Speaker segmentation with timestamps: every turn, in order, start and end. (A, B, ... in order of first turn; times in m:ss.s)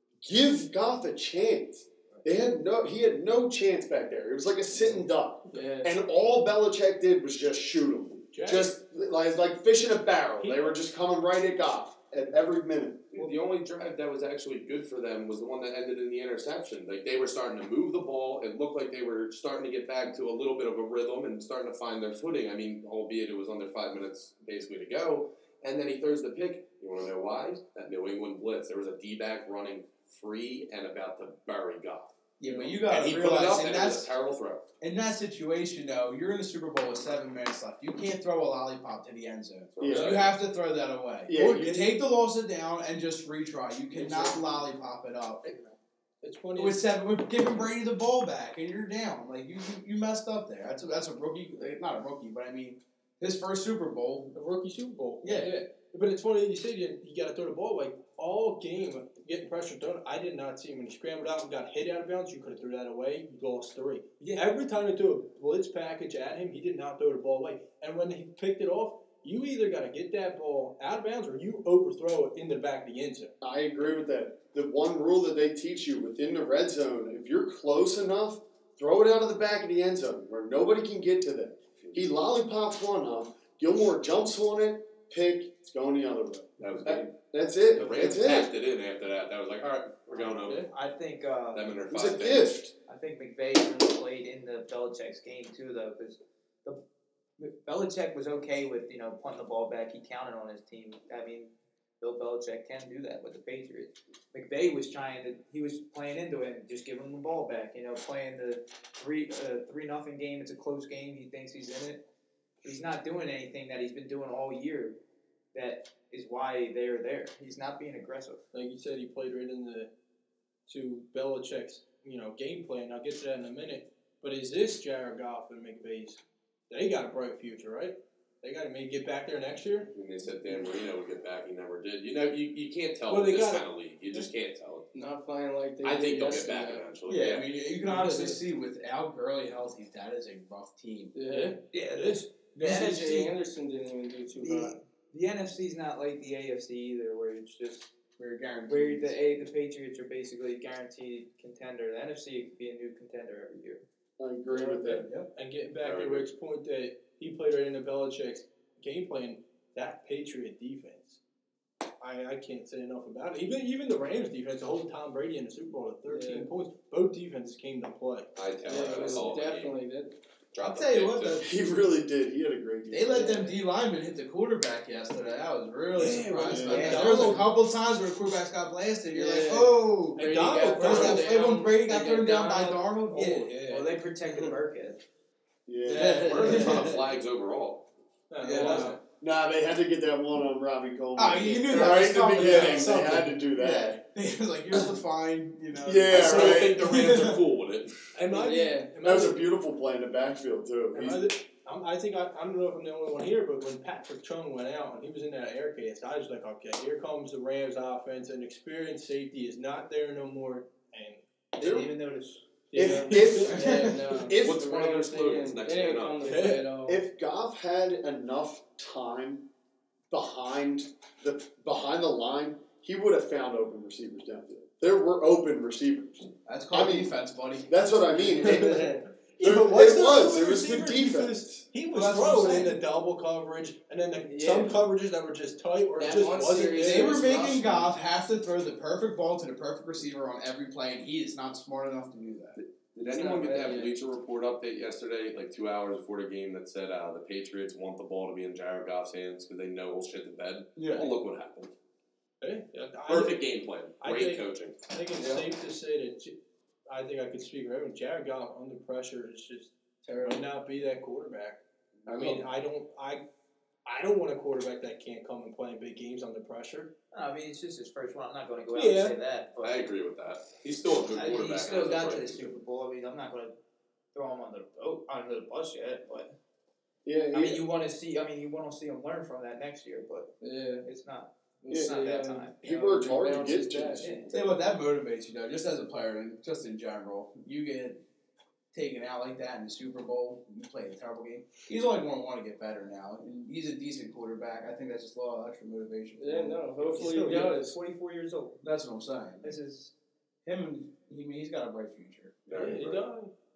0:00.2-0:13.1 A
0:05.5-0:06.0 B
0:08.3-0:08.7 C
0:10.4-0:10.8 C
0:13.1-0:34.7 D
0:32.4-0:34.1 E
0:34.8-0:45.4 E
0:39.8-0:40.4 D
0:39.8-0:40.2 A
0:41.3-0:41.9 A
0:44.0-0:44.3 C
0:46.2-0:46.9 C
0:46.6-0:54.3 E
0:54.3-1:13.3 C
0:55.2-0:55.5 E
1:04.2-1:04.4 F
1:13.4-1:28.5 A
1:26.6-1:27.1 D
1:27.7-1:30.7 D
1:30.2-1:31.8 F
1:31.5-1:32.5 D
1:31.8-1:32.8 A
1:32.8-1:36.8 F
1:37.4-1:52.0 F
1:52.6-1:55.0 F
1:55.5-1:58.4 F
1:58.5-1:59.9 C
2:00.7-2:09.9 C
2:09.9-2:14.9 D
2:13.1-2:13.6 C
2:14.9-2:16.8 B
2:15.8-2:17.4 D
2:17.0-2:21.1 E
2:17.8-2:18.4 B
2:21.1-2:21.6 B
2:21.3-2:22.2 C
2:21.7-2:23.3 F
2:22.6-2:24.8 B
2:22.6-2:23.0 E
2:24.6-2:27.9 F
2:28.2-2:29.2 E
2:28.7-2:33.8 F
2:34.2-2:35.1 A
2:34.9-2:35.3 E
2:35.3-2:41.2 C
2:35.8-2:36.3 D
2:42.0-2:48.3 C
2:46.0-2:46.5 B
2:48.4-2:49.8 D
2:48.6-2:50.1 B
2:50.5-2:51.5 D
2:50.6-2:51.5 E
2:51.4-2:53.4 A
2:52.9-3:03.6 E
2:56.0-2:57.4 C
2:56.0-2:57.4 F
2:56.5-2:57.2 A
2:59.1-3:03.8 B
3:00.2-3:01.3 C
3:03.1-3:03.6 C
3:03.6-3:05.0 F
3:05.6-3:06.6 A
3:05.9-3:07.8 D
3:05.9-3:06.9 B
3:06.0-3:06.7 E
3:08.3-3:09.0 C
3:08.4-3:09.0 E
3:08.4-3:08.9 B
3:09.2-3:14.0 A
3:11.2-3:17.4 E
3:12.3-3:12.9 C
3:15.8-3:16.9 A
3:16.1-3:17.9 D
3:18.1-3:19.4 C
3:18.3-3:19.0 B
3:19.0-3:21.3 A
3:20.9-3:31.2 C
3:31.5-3:32.7 F
3:31.6-3:31.9 A
3:32.7-3:33.6 C
3:32.7-3:34.6 A
3:32.9-3:37.0 B
3:34.3-3:36.4 D
3:36.2-3:36.7 C
3:36.8-3:39.5 A
3:40.1-3:47.1 A
3:46.4-3:47.7 E
3:47.6-3:51.6 A
3:48.3-3:49.1 B
3:48.4-3:57.3 C
3:51.9-3:52.8 E
3:54.2-3:54.8 B
3:56.0-3:57.9 B
3:56.8-4:02.6 E
4:02.6-4:11.7 D
4:03.0-4:03.9 B
4:10.8-4:11.1 E
4:12.4-4:13.4 C
4:13.0-4:14.8 D
4:14.0-4:16.4 C
4:16.9-4:19.7 C
4:20.0-4:20.4 B
4:20.2-4:23.2 C
4:22.1-4:22.4 B
4:23.8-4:26.9 C
4:27.1-4:29.9 F
4:28.7-4:29.2 C
4:29.6-4:32.6 D
4:31.0-4:33.5 F
4:34.1-4:36.3 F
4:37.0-4:37.7 A
4:37.3-4:40.3 F
4:40.4-4:40.9 B
4:40.8-4:42.6 F
4:41.6-4:44.2 B
4:41.7-4:42.0 A
4:42.6-4:44.6 A
4:44.0-4:44.2 F
4:44.3-4:48.0 E
4:48.7-4:57.5 E
4:56.2-4:57.8 B
4:56.8-4:58.6 F
4:58.6-4:59.6 E
4:59.4-4:59.9 F
5:00.4-5:02.4 E
5:02.4-5:03.0 D
5:02.5-5:03.3 C